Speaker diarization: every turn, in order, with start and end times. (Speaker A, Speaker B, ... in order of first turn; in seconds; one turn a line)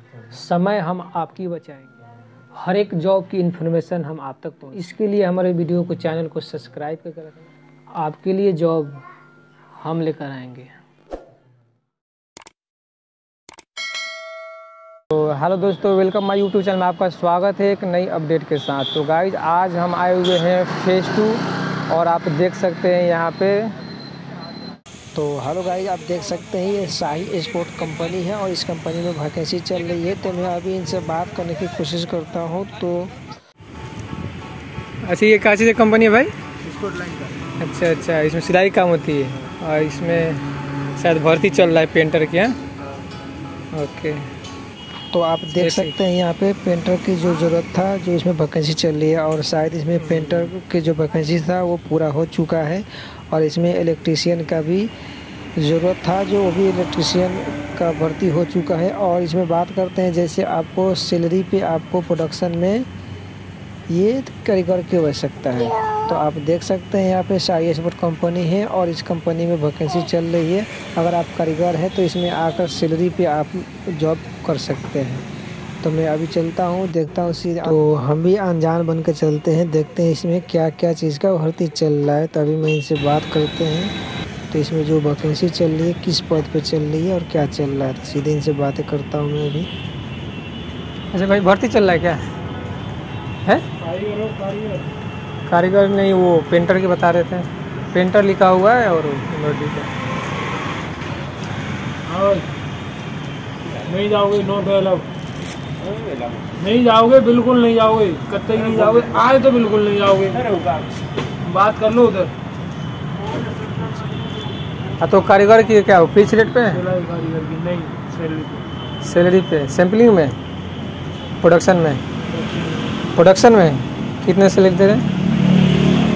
Speaker A: 0.3-2.0
Speaker A: 2.6-9.0
Speaker A: 9.8-10.7
Speaker A: 15.1-23.7
Speaker B: 25.1-33.2
Speaker A: 35.0-36.3
Speaker C: 36.6-37.4
Speaker A: 37.6-40.4
Speaker A: 41.0-42.5
Speaker A: 43.7-44.3
Speaker B: 45.1-54.9
Speaker A: 45.5-46.0
Speaker B: 55.6-62.9
Speaker B: 63.9-75.3
Speaker B: 75.8-83.9
Speaker B: 84.5-89.7
Speaker A: 91.1-92.2
Speaker C: 93.8-94.9
Speaker A: 95.5-99.9
Speaker C: 102.1-102.5
Speaker C: 103.8-105.1
Speaker C: 106.6-110.8
Speaker C: 111.4-112.3
Speaker A: 115.0-116.8
Speaker C: 116.7-118.7
Speaker A: 119.0-120.4
Speaker A: 121.4-122.0
Speaker C: 122.3-122.9
Speaker A: 123.2-125.0